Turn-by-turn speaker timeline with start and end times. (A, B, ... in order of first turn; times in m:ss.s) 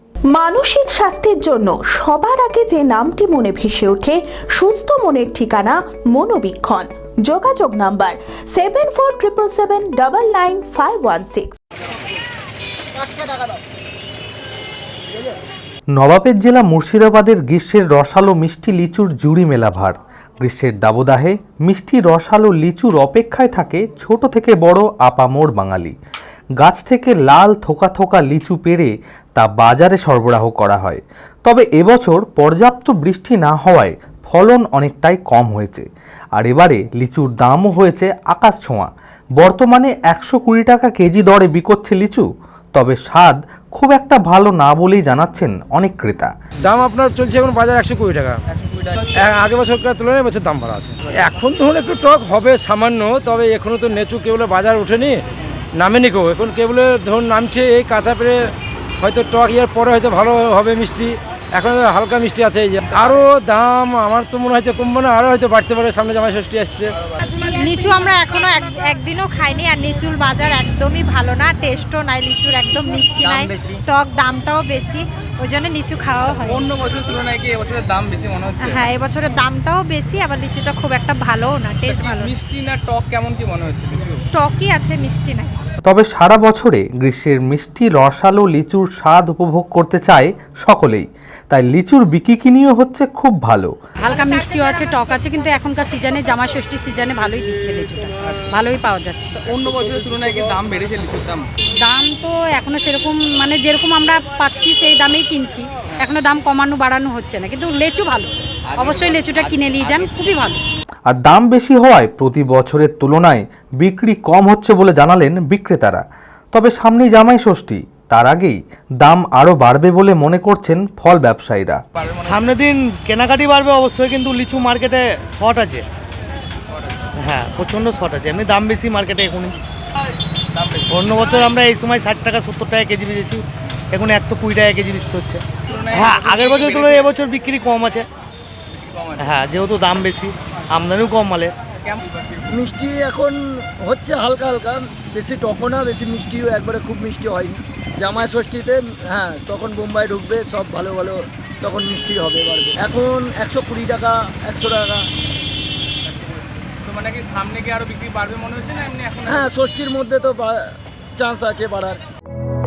0:00.3-0:11.6 A
0:13.0-0:13.6 B
0:15.9-0:25.9 C
0:26.6-0:46.3 C
0:46.6-0:48.4 D
0:49.1-0:55.2 D
0:55.8-1:06.9 D
1:07.4-1:16.7 E
1:16.6-1:18.8 F
1:18.6-1:22.3 E
1:21.9-1:24.2 F
1:24.3-1:25.5 E
1:25.9-1:33.7 C
1:34.0-1:39.4 G
1:39.5-1:41.4 F
1:41.8-1:50.6 G
1:51.1-2:01.8 C
2:02.0-2:05.8 H
2:07.2-2:09.6 H
2:10.9-2:18.1 H
2:15.8-2:17.0 F
2:18.8-2:19.2 F
2:19.2-2:21.5 H
2:22.5-2:35.1 B
2:36.9-2:39.4 F
2:39.3-2:40.6 B
2:41.2-2:42.0 B